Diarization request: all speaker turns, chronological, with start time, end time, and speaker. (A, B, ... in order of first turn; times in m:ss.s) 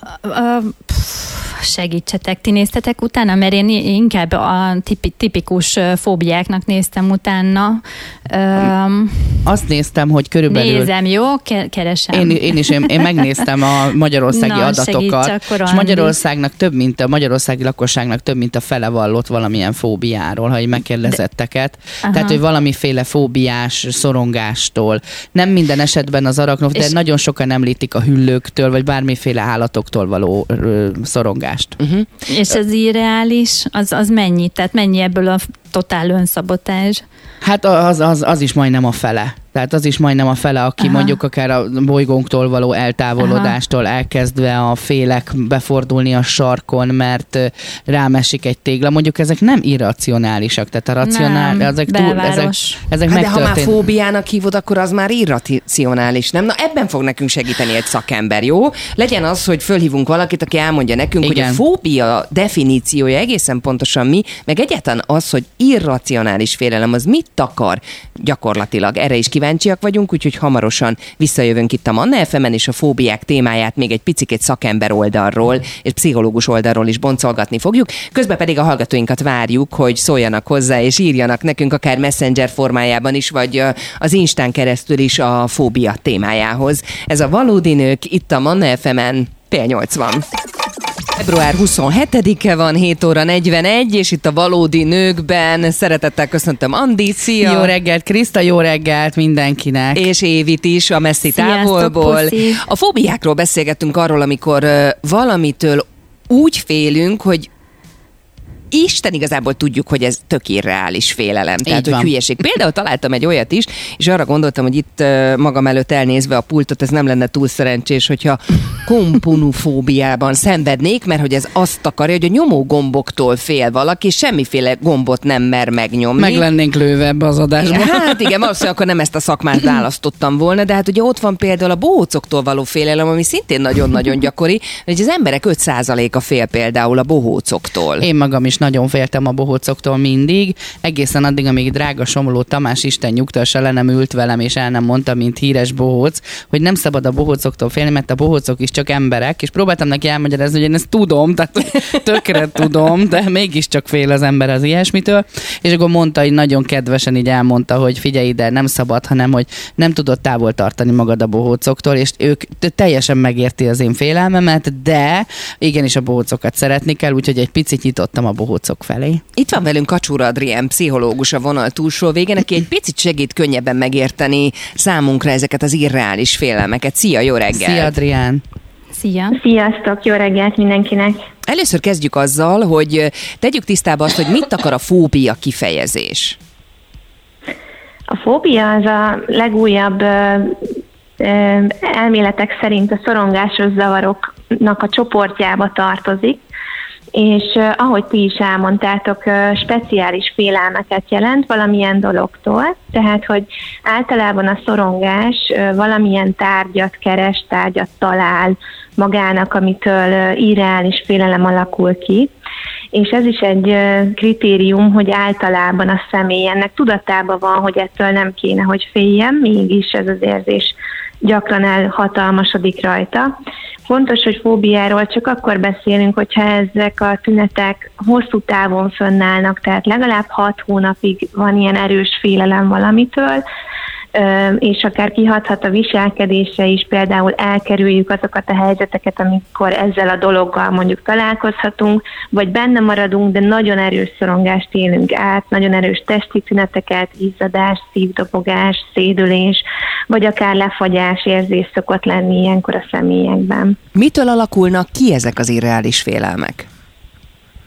0:00.2-0:09.4 A
0:09.4-0:10.9 B
0:10.5-0:13.0 A
0:12.1-0:31.8 B
0:14.3-0:16.2 A
0:22.0-0:22.4 A
0:31.8-0:32.0 C
0:32.3-0:37.0 A
0:37.4-0:53.8 B
0:40.8-0:41.2 A
0:43.2-0:43.5 A
0:51.0-0:52.8 A
0:53.1-1:30.2 C
1:01.2-1:01.6 B
1:31.2-1:37.7 C
1:37.4-1:40.0 B
1:39.9-1:47.5 C
1:41.3-1:42.6 A
1:48.7-2:06.4 C
1:51.6-1:52.1 B
2:06.2-2:08.2 B
2:07.6-2:18.0 C
2:18.0-2:49.2 B
2:49.4-2:57.9 C
2:57.5-2:58.4 B
2:58.9-2:59.4 A
2:59.3-3:01.2 D
3:01.5-3:06.4 C
3:08.1-3:10.6 D
3:11.2-3:16.4 D
3:17.1-3:32.3 D
3:32.9-3:40.7 D
3:41.2-3:43.3 D
3:43.9-3:53.4 D
3:54.1-4:13.8 D
4:13.9-4:16.7 C